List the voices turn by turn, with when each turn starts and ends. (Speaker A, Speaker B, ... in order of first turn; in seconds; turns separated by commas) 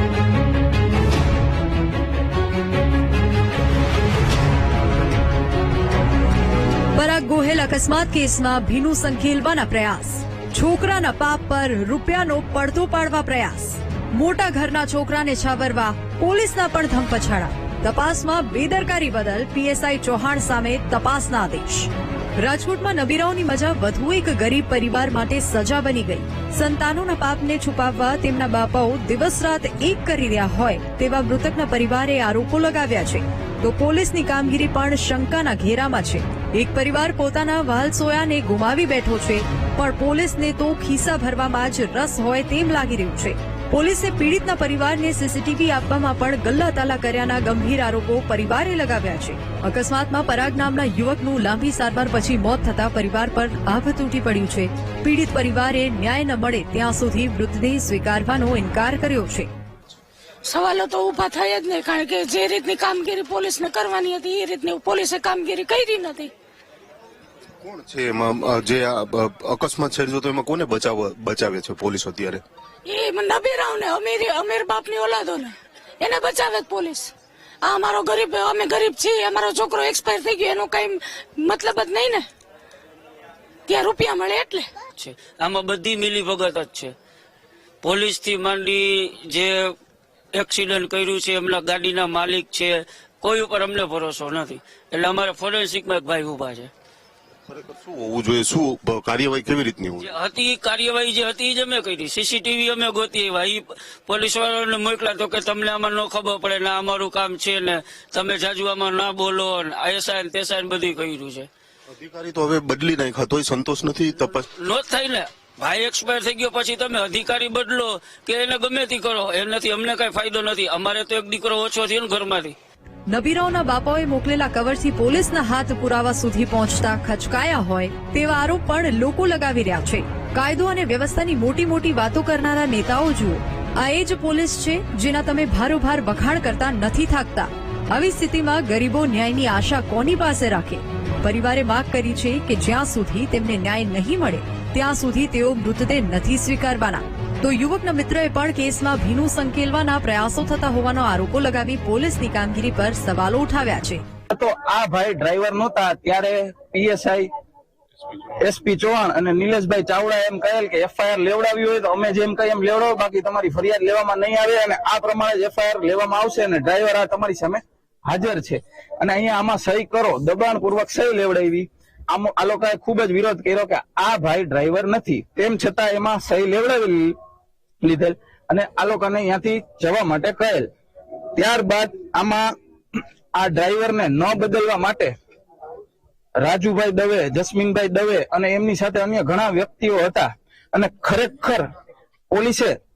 Speaker A: 6.9-59.5, Speaker B: 60.4-66.3, Speaker C: 67.6-72.4, Speaker B: 72.8-82.3, Speaker B: 83.7-84.7, Speaker D: 84.9-86.9, Speaker D: 87.8-89.7, Speaker D: 90.3-96.7, Speaker C: 97.5-100.1, Speaker D: 100.0-111.5, Speaker C: 111.9-114.5, Speaker D: 114.5-122.5, Speaker A: 123.1-154.0, Speaker E: 154.3-157.3, Speaker E: 158.4-177.2, Speaker E: 177.8-180.7, Speaker E: 181.3-182.5, Speaker E: 183.3-185.1, Speaker E: 186.4-191.6, Speaker E: 192.3-192.8